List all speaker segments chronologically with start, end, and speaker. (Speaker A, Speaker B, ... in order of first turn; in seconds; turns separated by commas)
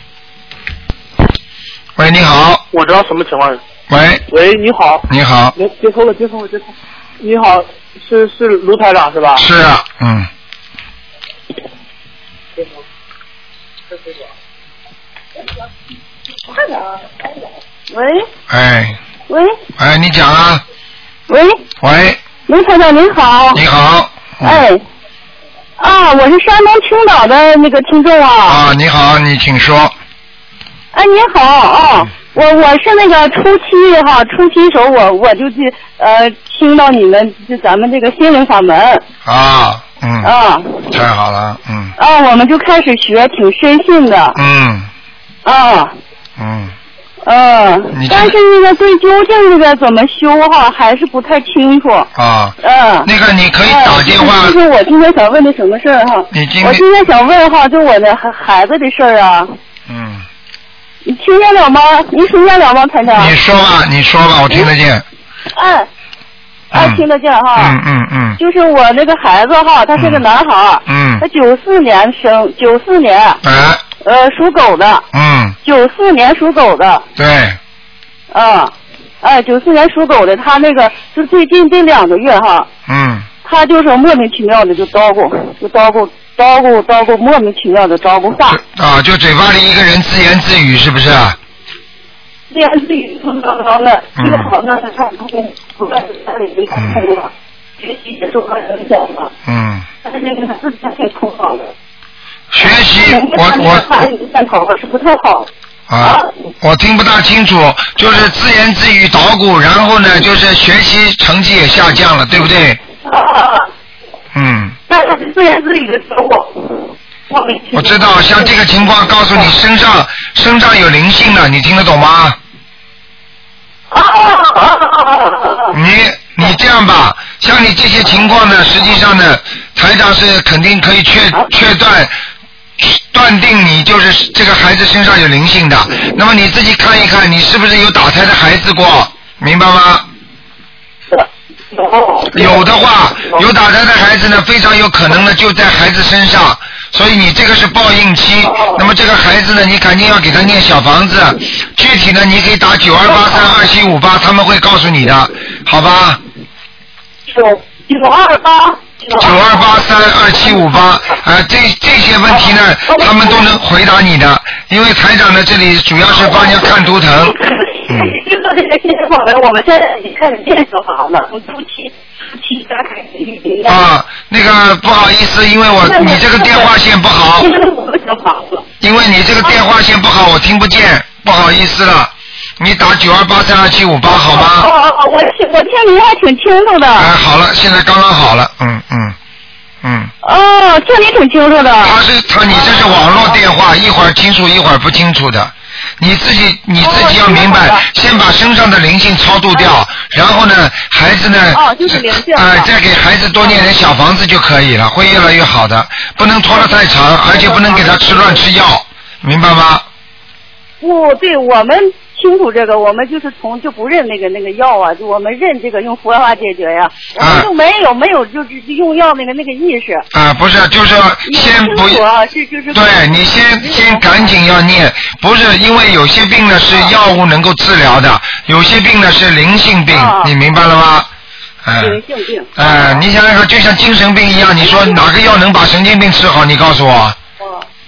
Speaker A: 2.0-2.6, Speaker B: 2.7-3.6, Speaker A: 3.9-4.2, Speaker B: 4.3-5.0, Speaker A: 5.1-5.5, Speaker B: 5.6-6.6, Speaker B: 7.2-9.4, Speaker A: 9.4-10.3, Speaker C: 17.9-18.3, Speaker A: 18.5-19.0, Speaker C: 19.3-19.6, Speaker A: 19.8-20.6, Speaker C: 21.3-21.6, Speaker A: 21.8-22.2, Speaker C: 22.4-23.6, Speaker A: 23.5-24.6, Speaker C: 24.4-24.8, Speaker C: 25.8-28.6, Speaker A: 28.5-29.9, Speaker C: 30.9-39.0, Speaker A: 39.2-40.3, Speaker C: 40.2-40.9, Speaker A: 40.9-42.0, Speaker C: 42.0-44.4, Speaker A: 44.3-44.9, Speaker C: 45.5-46.0, Speaker A: 46.4-46.7, Speaker C: 47.2-52.1, Speaker A: 47.9-48.3, Speaker A: 52.1-54.6, Speaker C: 52.6-53.1, Speaker C: 53.6-59.5, Speaker A: 56.3-56.8, Speaker A: 59.9-60.3, Speaker C: 61.0-63.3, Speaker A: 63.1-65.0, Speaker C: 65.5-65.9, Speaker A: 66.7-67.0, Speaker C: 66.7-67.8, Speaker A: 67.6-68.4, Speaker C: 68.4-73.4, Speaker A: 70.8-71.2, Speaker A: 73.4-73.8, Speaker C: 74.0-75.1, Speaker A: 75.1-75.6, Speaker C: 75.6-77.0, Speaker A: 77.2-77.6, Speaker C: 78.3-82.7, Speaker A: 82.9-83.3, Speaker C: 83.4-88.6, Speaker A: 88.5-91.4, Speaker C: 92.5-99.3, Speaker A: 94.2-94.5, Speaker A: 96.7-97.0, Speaker A: 99.4-99.9, Speaker C: 100.0-101.7, Speaker A: 102.5-103.8, Speaker C: 103.0-105.5, Speaker A: 105.9-112.8, Speaker C: 106.0-106.3, Speaker C: 113.0-113.7, Speaker A: 114.3-114.8, Speaker C: 114.9-118.5, Speaker A: 117.7-122.4, Speaker C: 123.9-125.7, Speaker A: 125.7-132.2, Speaker A: 132.8-140.1, Speaker C: 141.1-142.6, Speaker A: 142.3-156.2, Speaker C: 148.4-148.8, Speaker C: 157.3-159.4, Speaker A: 159.2-167.4, Speaker C: 162.8-163.3, Speaker C: 167.4-173.8, Speaker A: 167.9-168.2, Speaker A: 173.6-177.5, Speaker C: 175.8-176.7, Speaker C: 177.4-178.6, Speaker A: 178.8-184.7, Speaker C: 184.1-187.1, Speaker A: 187.0-189.2, Speaker A: 189.8-190.1, Speaker C: 190.2-192.0, Speaker A: 191.8-209.8, Speaker C: 192.5-193.4, Speaker C: 196.8-197.9, Speaker C: 201.5-202.7, Speaker C: 203.4-203.7, Speaker C: 206.5-208.4, Speaker C: 210.8-220.1, Speaker A: 217.2-217.5, Speaker A: 220.1-222.0, Speaker C: 221.2-224.3, Speaker A: 222.7-231.1, Speaker C: 229.9-230.3, Speaker A: 231.6-232.0, Speaker C: 231.8-233.0, Speaker A: 232.6-237.2, Speaker C: 234.6-235.1, Speaker C: 237.4-237.7